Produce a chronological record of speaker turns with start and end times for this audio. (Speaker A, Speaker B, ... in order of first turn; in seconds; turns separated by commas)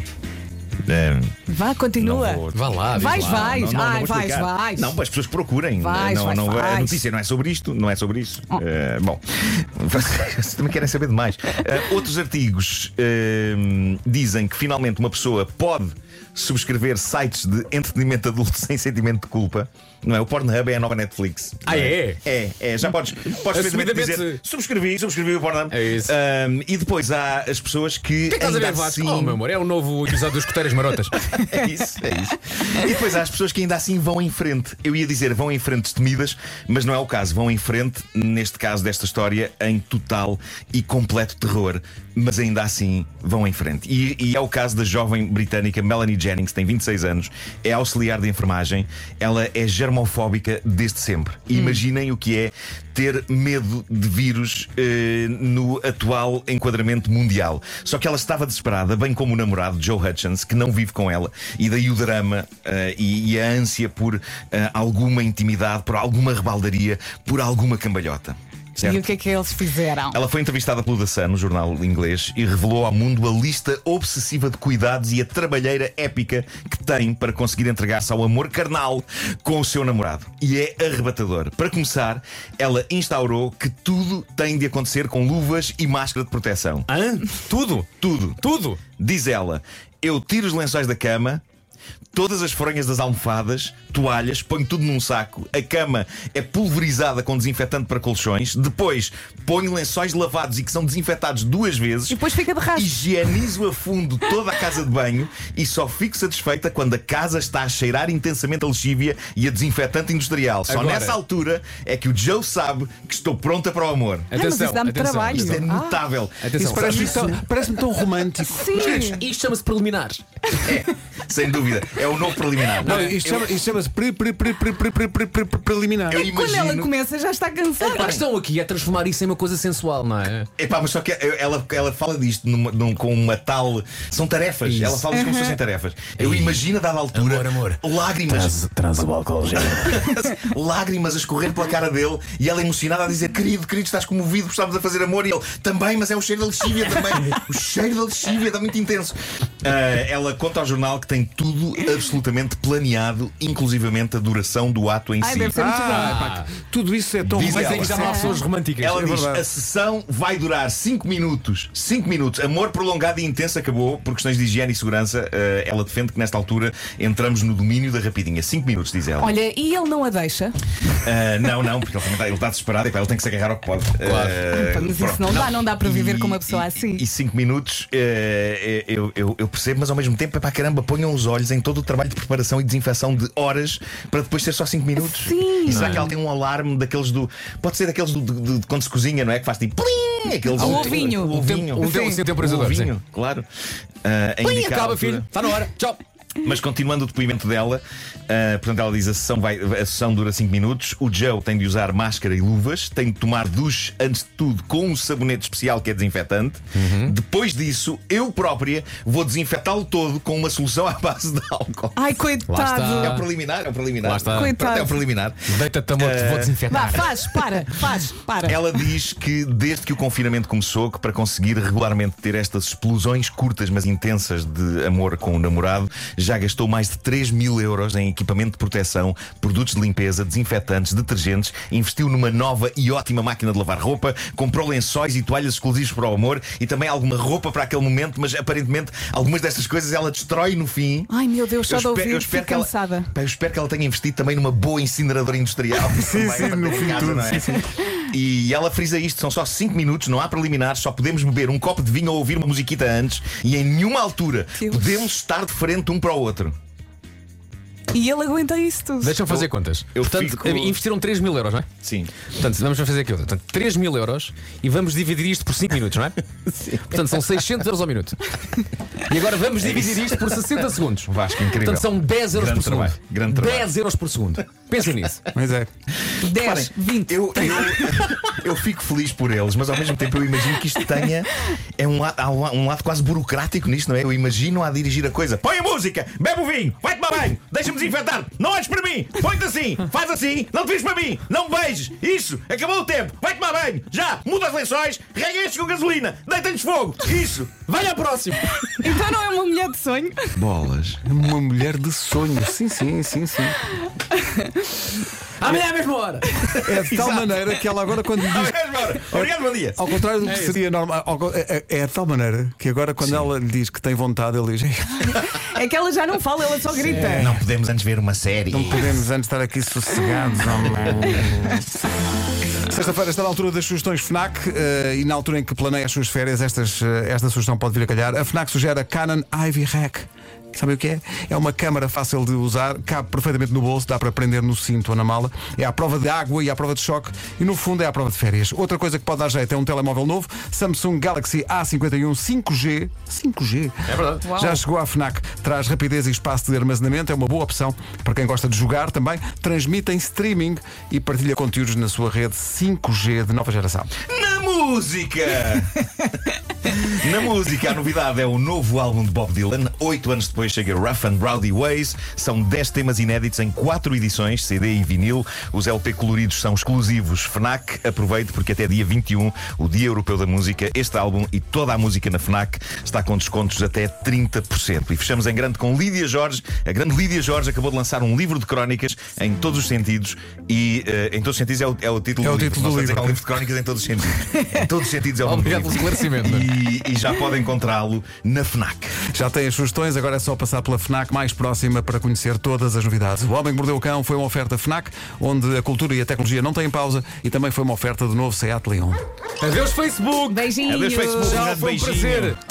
Speaker A: 0.8-1.4, Speaker B: 1.5-4.9, Speaker A: 1.9-29.4, Speaker C: 2.5-3.6, Speaker B: 5.8-7.0, Speaker C: 21.6-22.2, Speaker C: 23.5-24.4, Speaker C: 25.7-26.1, Speaker C: 28.3-31.2, Speaker A: 31.3-69.1, Speaker B: 68.8-70.2, Speaker A: 70.1-86.9, Speaker C: 86.9-88.8, Speaker A: 88.0-88.4, Speaker A: 89.0-91.4, Speaker A: 92.1-114.3, Speaker B: 102.1-102.9, Speaker C: 110.7-111.2, Speaker C: 114.3-115.6, Speaker B: 114.3-116.0, Speaker A: 115.3-117.2, Speaker C: 116.4-117.4, Speaker D: 116.6-119.0, Speaker B: 116.8-117.4, Speaker B: 118.4-119.2, Speaker C: 118.7-120.2, Speaker A: 120.5-123.6, Speaker C: 122.8-123.2, Speaker D: 122.8-126.2, Speaker A: 126.1-126.9, Speaker B: 126.1-128.1, Speaker C: 127.8-130.5, Speaker A: 127.8-128.2, Speaker A: 130.6-138.6, Speaker C: 134.6-135.0, Speaker B: 135.1-135.6, Speaker C: 136.2-136.6, Speaker C: 137.1-140.1, Speaker A: 139.6-155.6, Speaker B: 155.2-156.2, Speaker D: 155.5-158.4, Speaker C: 155.8-156.5, Speaker A: 157.2-158.1, Speaker C: 157.3-159.0, Speaker B: 157.9-158.4, Speaker A: 158.8-169.3, Speaker D: 158.9-159.4, Speaker B: 169.2-170.6, Speaker A: 171.0-193.5, Speaker C: 174.0-174.5, Speaker B: 174.5-177.0, Speaker B: 185.0-186.1, Speaker C: 185.7-186.1, Speaker B: 190.5-192.2, Speaker C: 190.6-192.9, Speaker A: 194.0-195.3, Speaker C: 194.4-196.0, Speaker A: 196.4-212.1, Speaker C: 206.7-207.1, Speaker B: 211.9-213.2, Speaker C: 212.4-213.2, Speaker A: 212.8-217.7, Speaker C: 214.0-214.6, Speaker B: 214.3-215.0, Speaker C: 215.5-217.1, Speaker B: 216.7-218.6, Speaker A: 218.4-241.1, Speaker B: 241.1-243.1, Speaker A: 241.7-256.5, Speaker D: 246.0-247.6, Speaker B: 254.6-254.9, Speaker B: 257.9-259.2, Speaker C: 259.0-261.7, Speaker A: 259.3-260.8, Speaker A: 261.8-262.1, Speaker C: 262.2-266.2, Speaker A: 266.5-266.9, Speaker C: 266.9-268.3, Speaker C: 269.0-275.2, Speaker A: 269.6-270.0, Speaker A: 271.0-273.7, Speaker D: 275.3-275.7, Speaker B: 276.2-277.9, Speaker A: 276.2-297.7, Speaker C: 297.7-298.9, Speaker B: 298.8-300.3, Speaker A: 300.3-301.0, Speaker D: 301.0-303.6, Speaker B: 304.2-304.9, Speaker C: 305.4-306.6, Speaker D: 306.5-315.2, Speaker A: 306.8-307.6, Speaker A: 308.2-309.8, Speaker C: 310.2-310.6, Speaker B: 315.1-317.3, Speaker C: 316.8-317.3, Speaker A: 316.9-319.0, Speaker D: 318.5-321.6, Speaker D: 322.6-353.9, Speaker C: 343.9-344.3, Speaker B: 344.2-344.6, Speaker A: 354.1-355.8, Speaker A: 356.6-389.0, Speaker D: 382.2-383.2, Speaker C: 385.2-386.5, Speaker D: 389.1-399.0, Speaker C: 399.4-400.5, Speaker B: 400.3-401.5, Speaker A: 400.6-402.4, Speaker C: 401.2-402.4